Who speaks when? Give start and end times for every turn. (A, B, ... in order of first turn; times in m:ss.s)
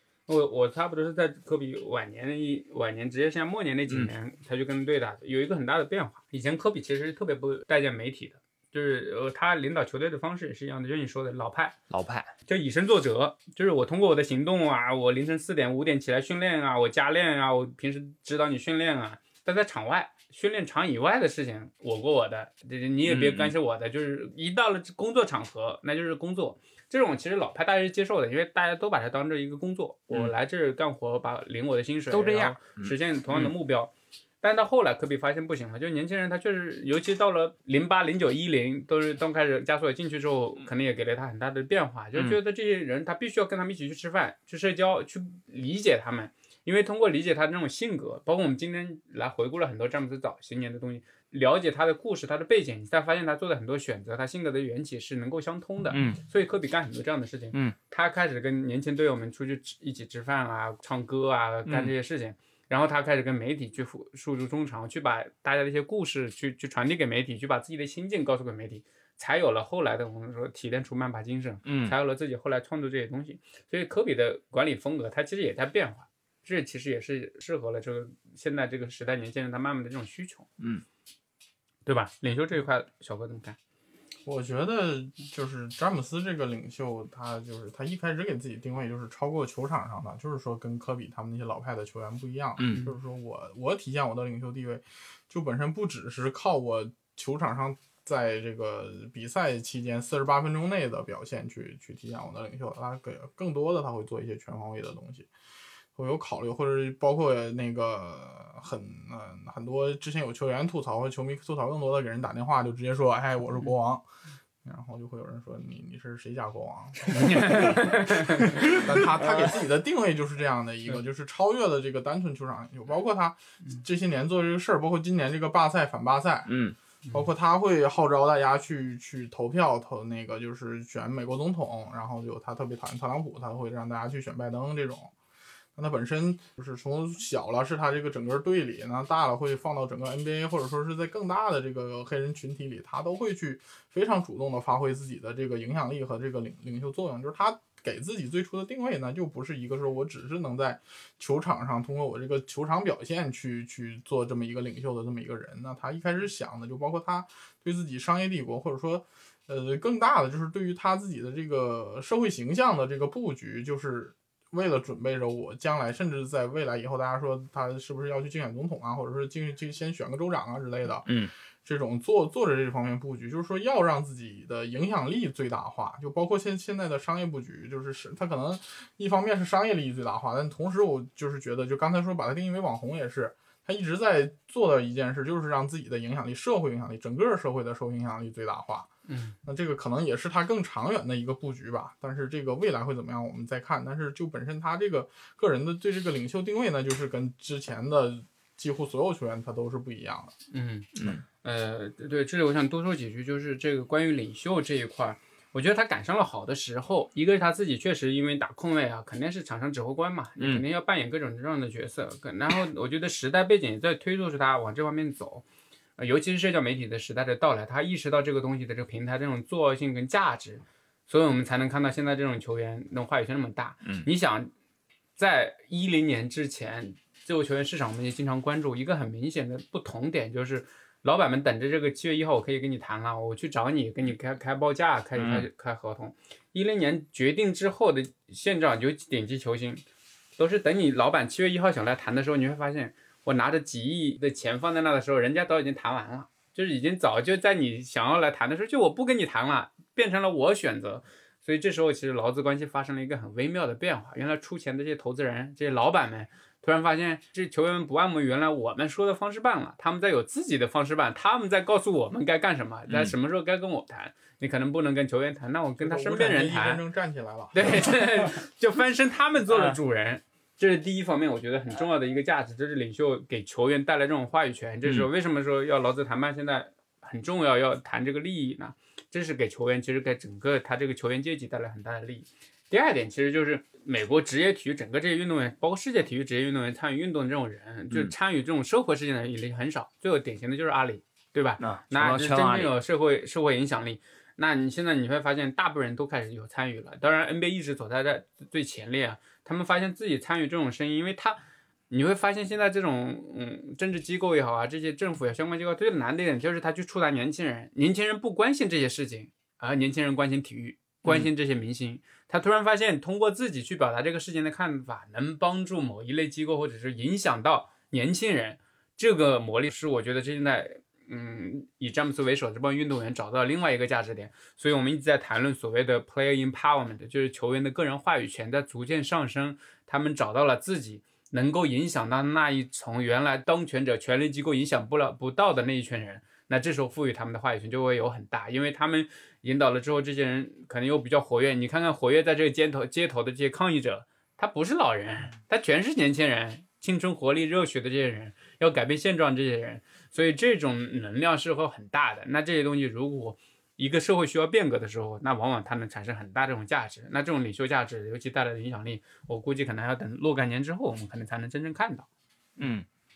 0:00.3-0:11.8 A
0:11.9-0:12.3 B
0:12.5-1:20.5 A
0:23.0-0:23.5 B
0:32.1-0:33.5 B
0:55.9-0:56.2 B
1:01.6-1:01.9 B
1:11.6-1:11.9 B
1:20.6-1:20.8 B
1:21.8-1:23.6 A
1:24.2-1:45.3 C
1:32.6-1:32.8 B
1:45.9-1:54.1 C
1:54.6-2:06.5 C
1:57.1-1:58.8 A
2:06.5-2:06.8 B
2:07.1-2:15.1 C
2:15.8-2:51.1 C
2:51.0-2:51.3 B
2:51.6-3:08.9 C
3:09.1-3:09.4 A
3:09.4-3:20.3 C
3:20.5-3:35.4 A
3:21.0-3:21.2 B
3:30.4-3:30.6 B
3:36.0-3:44.5 A
3:45.2-3:59.8 A
3:55.2-3:55.5 B
4:00.4-4:26.8 A
4:22.9-4:23.1 B
4:25.8-4:27.8 C
4:27.5-5:01.4 A
4:29.5-4:29.8 B
4:51.6-4:52.7 B
5:01.9-6:02.1 A
5:11.0-5:11.3 B
6:02.6-6:02.8 B